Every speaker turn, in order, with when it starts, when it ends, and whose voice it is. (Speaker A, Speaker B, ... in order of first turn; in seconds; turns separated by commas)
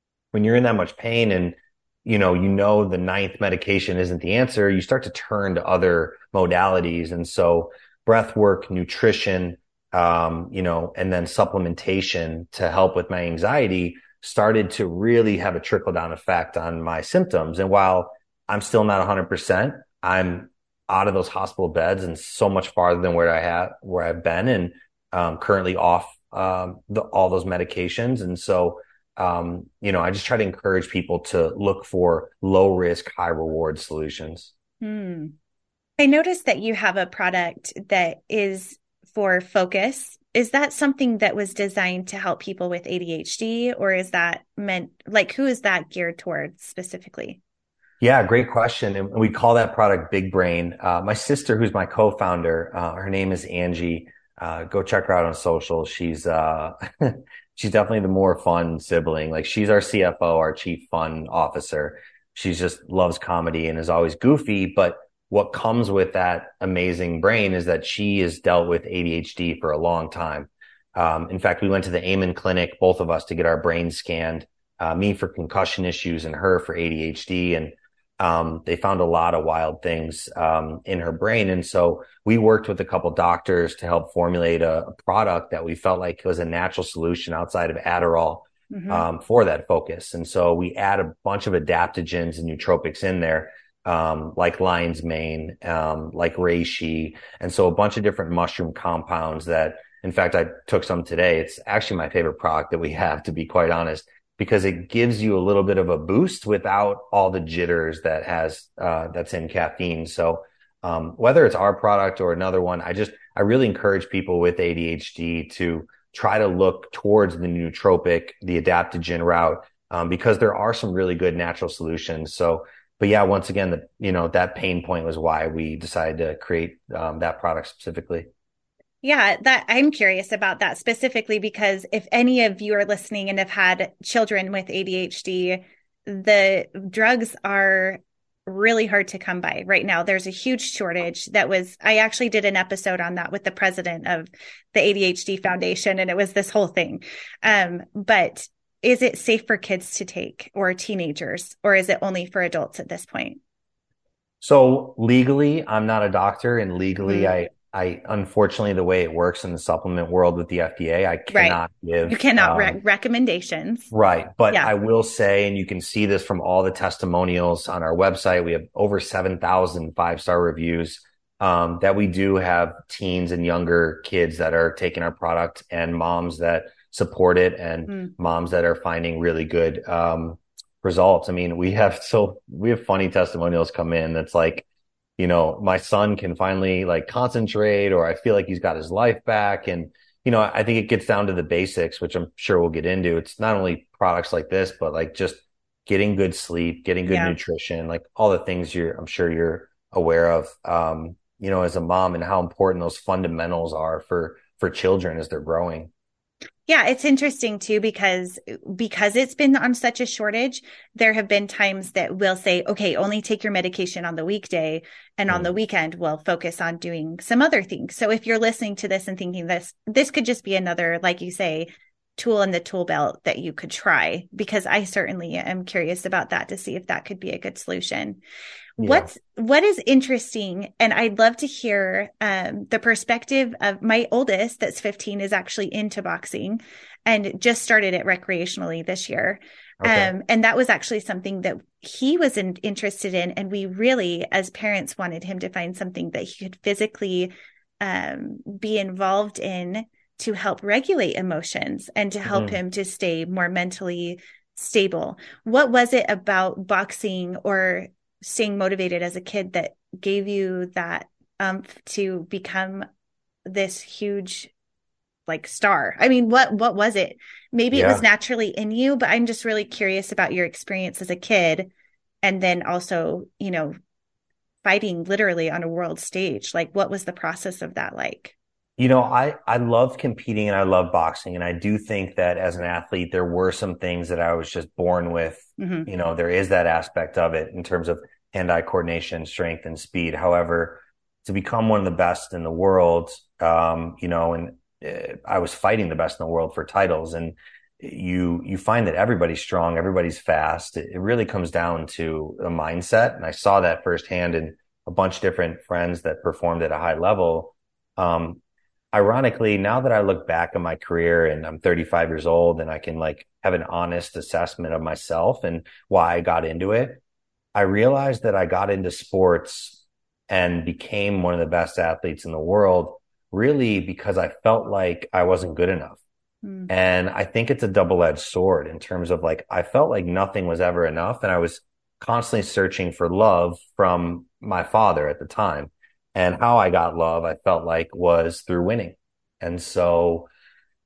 Speaker A: 0.3-34.5, Speaker B: 34.8-35.3, Speaker B: 36.0-47.4, Speaker A: 48.0-128.3, Speaker B: 88.7-89.0, Speaker B: 129.0-153.4, Speaker A: 154.4-162.8, Speaker B: 157.1-157.3, Speaker B: 161.3-163.9, Speaker A: 163.9-184.7, Speaker A: 185.2-205.9, Speaker B: 197.1-197.3, Speaker B: 206.7-228.2, Speaker B: 228.8-262.8, Speaker A: 228.8-229.1, Speaker A: 239.8-240.1, Speaker A: 252.2-252.6, Speaker B: 263.4-264.5, Speaker B: 265.3-271.7, Speaker A: 267.7-268.0, Speaker B: 272.2-273.7, Speaker B: 274.6-278.3, Speaker A: 278.8-308.4, Speaker B: 285.6-285.9, Speaker A: 308.9-317.0, Speaker A: 317.5-326.0, Speaker B: 326.4-326.7, Speaker A: 326.7-340.3